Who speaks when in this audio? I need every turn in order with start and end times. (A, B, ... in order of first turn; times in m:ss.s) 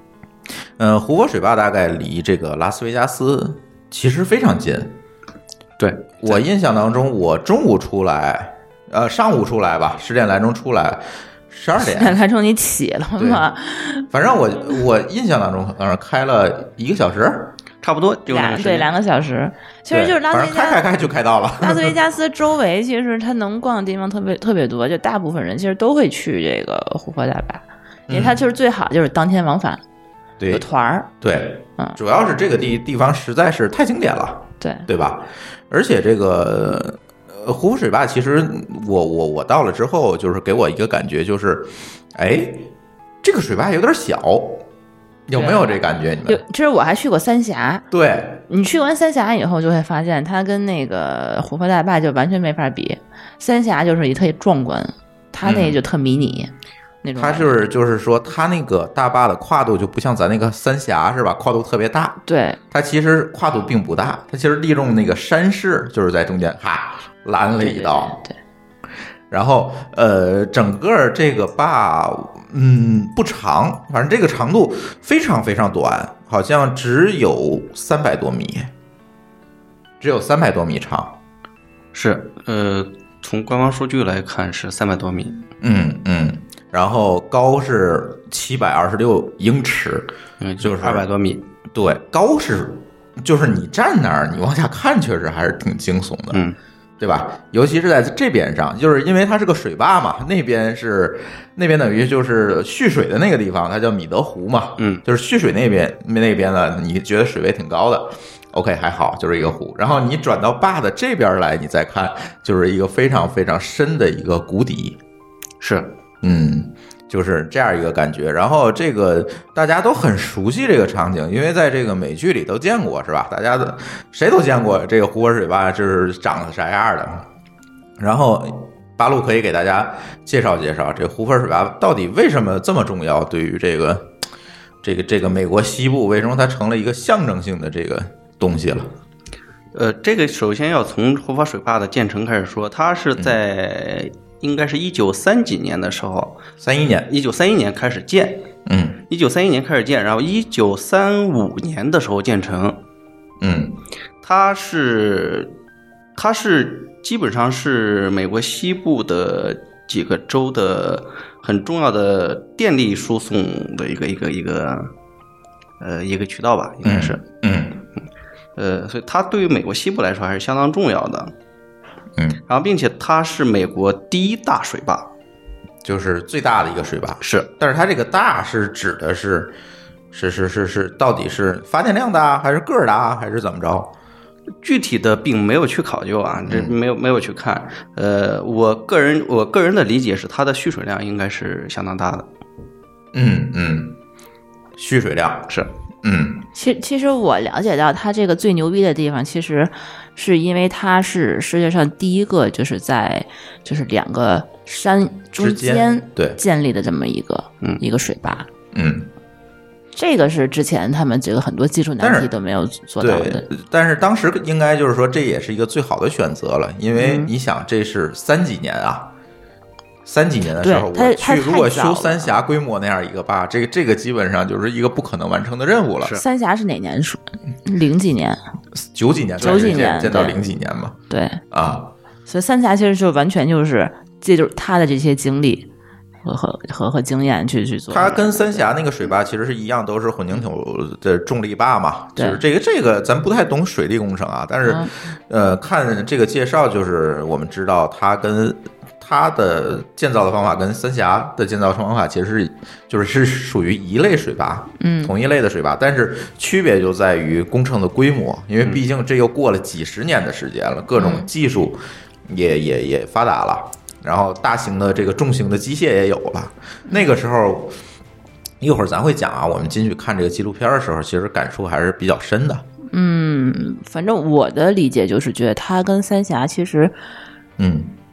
0:00.8-0:05.0 A
0:05.8-0:06.4 B
0:06.2-0:12.2 A
0:11.8-0:14.1 C
0:13.2-0:13.4 A
0:14.1-0:17.5 A
0:17.8-0:18.9 B
0:18.3-0:20.8 C
0:19.9-0:22.0 A
0:21.6-0:29.8 C
0:28.1-0:28.4 A
0:30.4-0:30.6 A
0:30.5-0:31.1 C
0:31.2-0:42.6 A
0:34.6-0:34.9 C
0:43.2-0:44.6 A
0:45.3-0:46.4 A
0:45.3-0:45.7 C
0:46.3-0:47.8 C
0:47.9-0:48.4 A
0:48.5-0:56.5 C
0:55.4-0:55.8 A
0:57.0-0:57.5 C
0:57.2-1:02.2 A
1:02.3-1:02.6 C
1:02.7-1:08.2 A
1:07.6-1:08.3 C
1:09.3-1:18.7 A
1:20.0-1:21.2 A
1:21.9-1:25.4 B
1:25.6-1:31.0 A
1:30.4-1:31.4 B
1:31.7-1:36.4 A
1:36.3-1:36.6 B
1:37.0-1:55.0 A
1:44.8-1:45.0 B
1:55.6-1:55.9 B
1:56.2-2:07.2 A
2:08.0-2:14.1 A
2:14.8-2:18.9 A
2:19.7-2:26.4 B
2:26.6-2:27.1 A
2:27.1-2:28.4 B
2:28.7-2:29.0 A
2:29.1-2:32.8 B
2:33.4-2:33.8 A
2:34.2-2:35.5 B
2:36.1-2:44.9 B
2:45.8-2:47.2 B
2:46.8-2:47.8 A
2:48.6-2:51.3 B
2:52.5-2:55.1 B
2:55.8-2:59.5 A
2:57.2-2:57.5 B
3:00.1-3:03.9 A
3:04.6-3:12.3 B
3:06.5-3:06.7 A
3:13.1-3:14.0 A
3:14.8-3:15.5 A
3:16.0-3:16.4 A
3:16.5-3:28.5 C
3:25.4-3:26.4 A
3:28.7-3:29.1 A
3:30.0-3:33.4 C
3:32.0-3:32.3 A
3:33.0-3:39.1 A
3:36.9-3:37.3 C
3:40.0-3:46.2 A
3:40.6-3:42.3 C
3:46.1-3:48.4 C
3:48.8-3:51.0 A
3:49.4-3:50.4 C
3:51.1-3:51.4 C
3:51.5-3:51.9 A
3:52.2-3:55.7 C
3:56.2-3:58.7 C
3:57.9-4:27.7 A
4:02.2-4:02.4 C
4:04.6-4:04.9 C
4:14.8-4:15.1 C
4:21.0-4:21.2 C
4:28.6-4:32.6 A
4:32.9-4:36.9 C
4:37.6-4:37.9 A